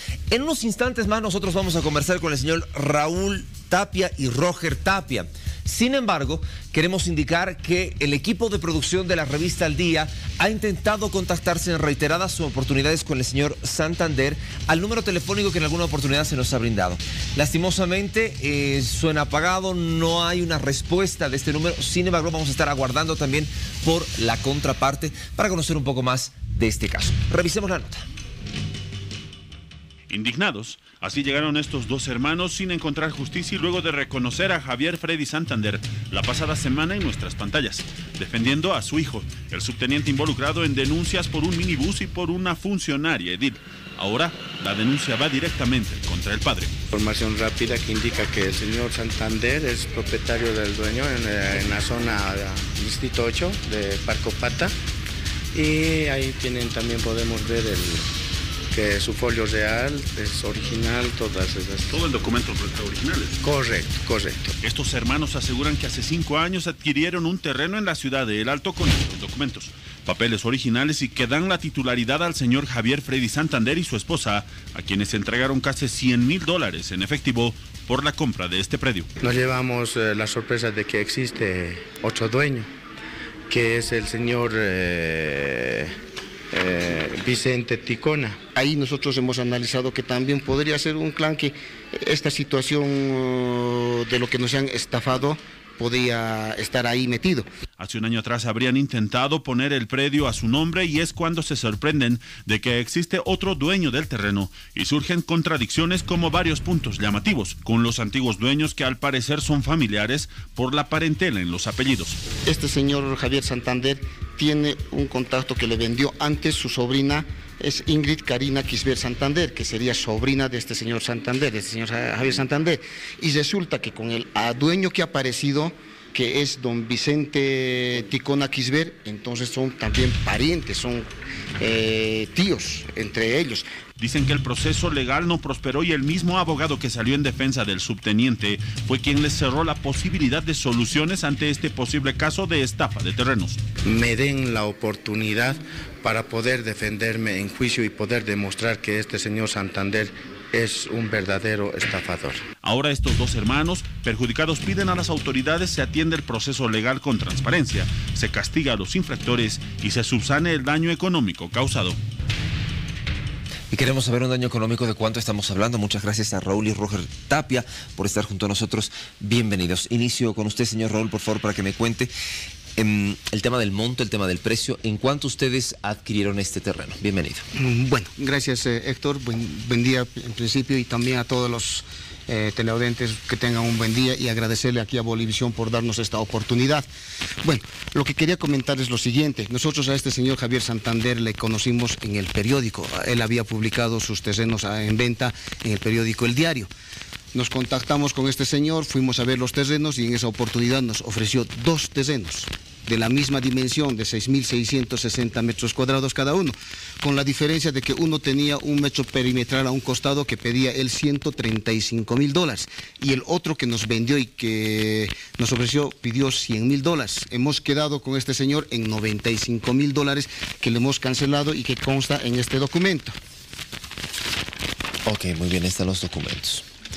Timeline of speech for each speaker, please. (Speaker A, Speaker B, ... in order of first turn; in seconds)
Speaker A: 0.3-28.1, 163.7-172.1, 172.8-177.4, 225.1-226.7
Speaker B: 30.1-46.8, 61.9-63.4, 64.6-79.1, 97.8-112.2, 134.0-143.6, 152.6-162.0
Speaker C: 46.9-54.8, 55.5-58.1, 58.7-62.0, 63.4-64.5, 79.2-82.7, 83.5-85.9, 86.5-88.5, 143.8-152.4
Speaker D: 88.5-97.5, 112.5-131.1, 131.6-133.7, 177.6-186.9, 187.4-196.7, 197.3-223.2